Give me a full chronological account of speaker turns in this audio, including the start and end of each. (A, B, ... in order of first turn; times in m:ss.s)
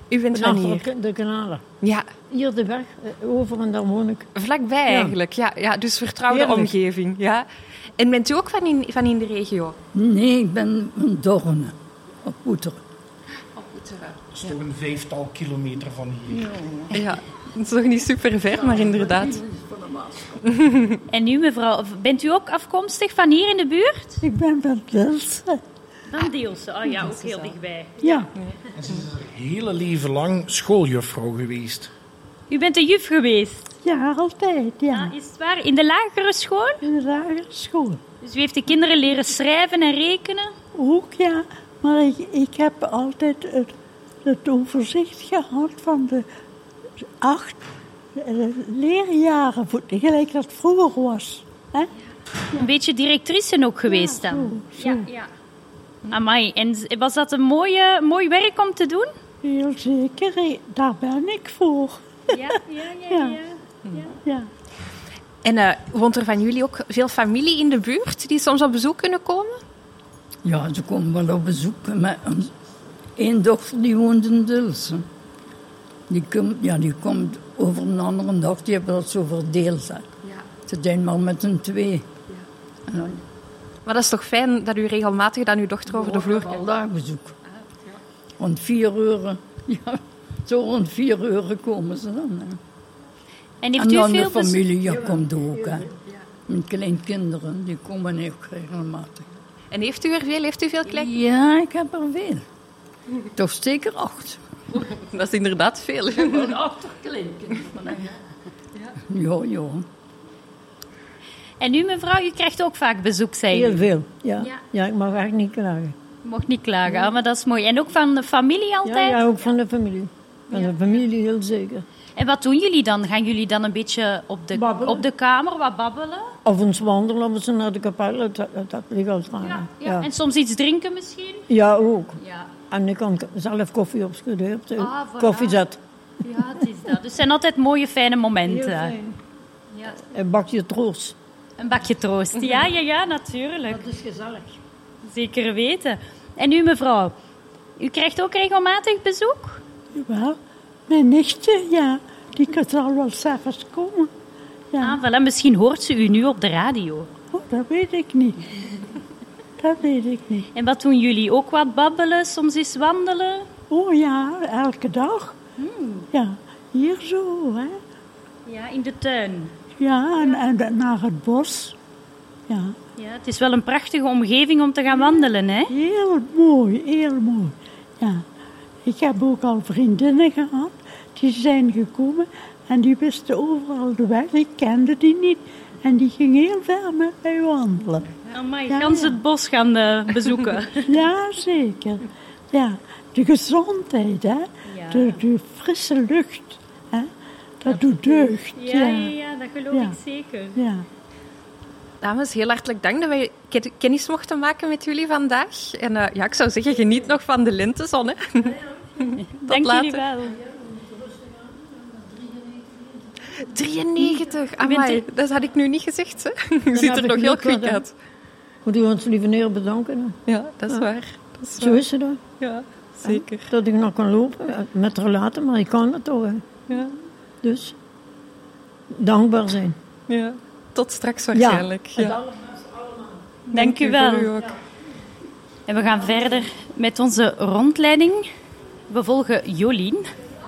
0:00.1-0:00.9 A
0:00.3-0:01.6 B
0:01.8-0:02.1 A
0:02.3-0:04.3 B
0:04.4-0:07.5 A
0:04.9-0:05.1 B
0:06.3-0:06.7 B
0:08.0-0:09.8 A
0:09.9-0:12.8 C
0:13.6-0:14.2 A
0:14.3-0:16.5 D
0:16.3-0:17.1 C
0:16.9-0:19.4 A
0:18.5-0:20.4 C
0:20.4-0:21.0 A
0:21.1-0:24.2 E
0:24.2-0:25.6 C
0:26.1-0:28.2 E
0:27.0-0:27.5 A
0:28.0-0:28.3 C
0:28.8-0:31.9 D
0:32.5-0:33.7 E
0:33.8-0:35.1 C
0:34.9-0:36.8 E
0:36.8-0:38.0 C
0:38.2-0:40.5 E
0:40.8-0:46.3 C
0:47.2-0:47.6 C
0:48.2-0:51.9 C
0:52.6-0:55.3 E
0:53.9-0:55.0 C
0:56.1-0:59.1 E
0:59.4-1:02.5 C
1:02.3-1:04.1 E
1:03.1-1:03.4 C
1:04.2-1:04.5 C
1:05.4-1:09.6 A
1:10.4-1:12.5 C
1:13.2-1:15.1 C
1:16.1-1:20.1 C
1:20.7-1:22.1 C
1:22.9-1:23.2 C
1:23.8-1:26.6 A
1:25.9-1:27.3 C
1:28.4-1:32.6 C
1:33.6-1:34.7 E
1:33.8-1:35.9 C
1:36.5-1:39.2 C
1:39.7-1:41.1 A
1:40.9-1:42.5 C
1:43.4-1:44.4 C
1:43.4-1:44.1 B
1:44.7-1:46.6 A
1:46.2-1:48.1 C
1:49.1-1:49.9 C
1:51.6-1:53.7 E
1:53.5-1:56.0 B
1:56.2-1:59.2 E
1:58.8-2:01.9 B
2:02.2-2:06.3 E
2:04.6-2:05.0 B
2:06.4-2:10.1 B
2:09.4-2:11.4 E
2:11.5-2:15.8 B
2:14.8-2:15.6 E
2:16.2-2:18.9 E
2:18.5-2:19.2 B
2:20.1-2:21.2 B
2:21.6-2:23.9 E
2:23.7-2:24.6 B
2:25.1-2:27.2 E
2:27.8-2:29.6 E
2:29.9-2:34.1 C
2:34.7-2:35.0 C
2:34.8-2:37.0 E
2:37.3-2:38.4 C
2:39.6-2:40.5 C
2:40.6-2:43.5 E
2:43.7-2:45.4 C
2:45.6-2:46.0 E
2:46.1-2:47.8 C
2:48.5-2:49.5 E
2:49.8-2:51.8 C
2:52.5-2:52.8 C
2:53.0-2:55.7 E
2:55.7-2:58.2 C
2:58.8-3:08.1 C
3:08.3-3:10.9 E
3:08.7-3:09.1 C
3:10.9-3:17.1 C
3:14.7-3:15.2 E
3:17.6-3:19.1 C
3:17.7-3:20.6 E
3:20.6-3:20.9 C
3:22.0-3:30.0 A
3:29.2-3:30.4 E
3:30.8-3:31.3 B
3:32.0-3:32.3 B
3:33.4-3:37.9 A
3:34.6-3:35.0 E
3:36.7-3:37.8 B
3:38.6-3:40.2 B
3:40.3-3:41.8 A
3:41.6-3:42.2 B
3:42.4-3:43.5 A
3:43.0-3:46.4 B
3:47.4-3:47.8 B
3:48.9-3:49.8 B
3:50.1-3:52.2 A
3:51.3-3:52.6 B
3:53.5-3:54.5 A
3:53.5-3:54.3 E
3:55.7-3:58.2 E
3:58.9-4:00.0 E